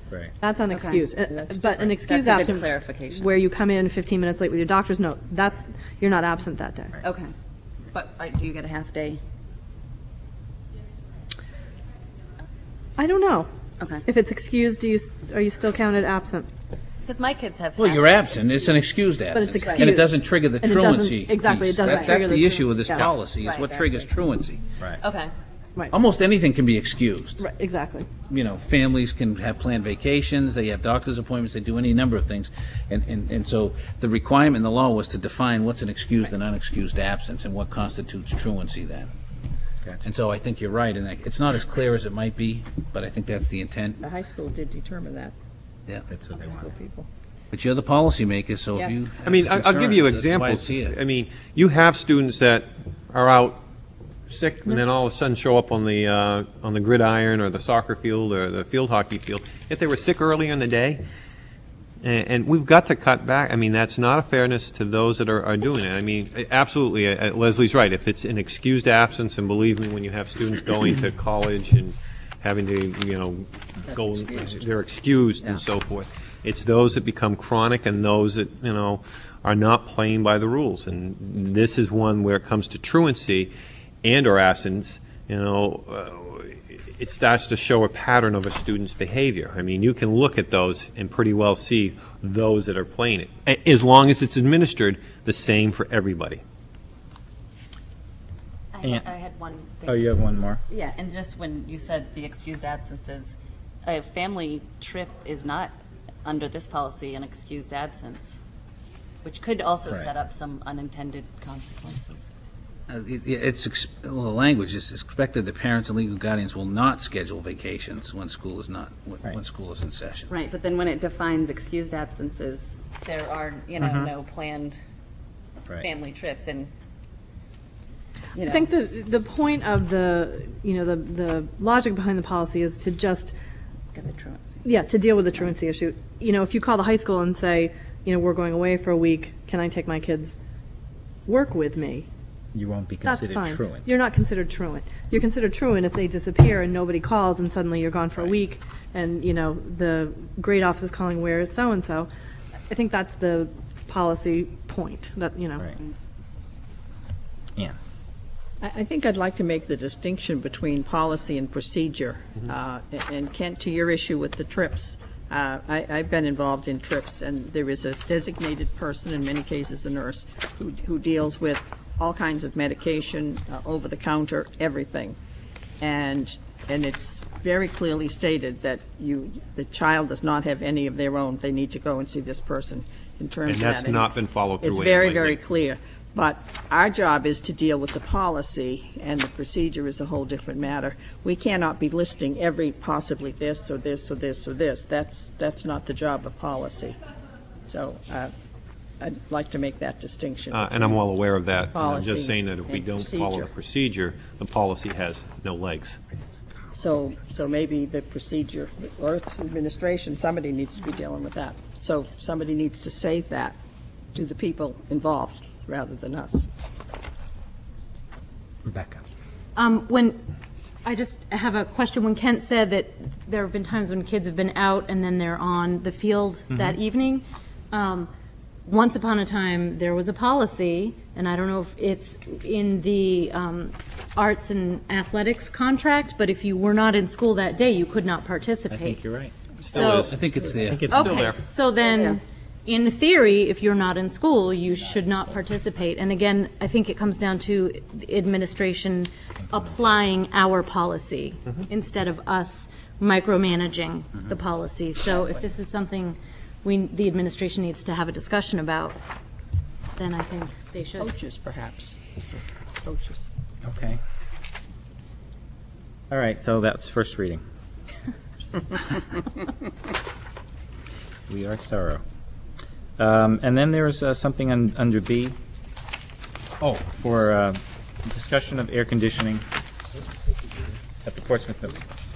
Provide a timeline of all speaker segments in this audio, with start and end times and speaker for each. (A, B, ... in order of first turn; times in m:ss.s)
0:00.4-0:07.0 A
0:00.7-0:03.3 B
0:07.0-0:07.3 B
0:07.9-0:09.2 B
0:13.0-0:13.5 A
0:13.8-0:14.0 B
0:14.0-0:16.5 A
0:17.0-0:18.8 B
0:17.8-0:24.6 C
0:19.3-0:23.1 A
0:19.6-0:19.9 B
0:23.4-0:23.8 B
0:25.0-0:25.3 B
0:25.9-0:27.4 C
0:27.4-0:28.1 A
0:28.3-0:39.1 C
0:40.0-0:44.0 C
0:44.0-0:45.4 D
0:46.1-0:46.7 E
0:46.3-0:47.1 D
0:47.5-0:51.0 C
0:48.8-0:49.1 D
0:49.2-0:53.6 F
0:54.3-1:01.0 F
1:02.0-1:23.5 F
1:13.9-1:14.6 D
1:24.0-1:36.4 F
1:38.7-1:40.2 B
1:38.8-1:39.1 E
1:39.8-1:40.6 E
1:40.7-1:48.4 B
1:49.2-1:52.3 B
1:52.9-2:00.3 C
2:00.3-2:04.8 B
2:03.8-2:04.1 E
2:05.7-2:06.7 B
2:08.3-2:08.7 B
2:08.4-2:13.3 A
2:13.9-2:14.6 B
2:14.6-2:20.4 A
2:21.3-2:22.1 A
2:22.5-2:23.8 E
2:23.0-2:32.1 A
2:32.7-2:35.7 A
2:38.6-2:55.2 D
2:55.8-3:17.0 D
3:03.5-3:05.4 F
3:17.7-3:18.3 D
3:19.0-3:21.0 D
3:20.5-3:26.0 F
3:21.7-3:23.5 D
3:26.7-3:33.6 D
3:34.1-3:36.5 D
3:38.6-3:39.0 E
3:39.6-3:40.2 G
3:40.8-3:48.1 G
3:46.5-3:46.8 E
3:48.6-3:59.0 G
3:58.7-3:59.3 E
3:59.6-4:00.2 G
3:59.7-4:00.1 F
4:00.0-4:01.1 C
4:00.7-4:01.3 E
4:00.9-4:19.0 G
4:00.9-4:01.4 F
4:01.8-4:02.2 D
4:20.0-4:21.1 G
4:21.0-4:23.3 D
4:23.6-4:24.0 E
4:26.1-4:27.4 E
4:31.3-4:32.0 E
4:33.0-4:35.4 E
4:36.6-4:39.4 E
4:41.0-4:41.8 E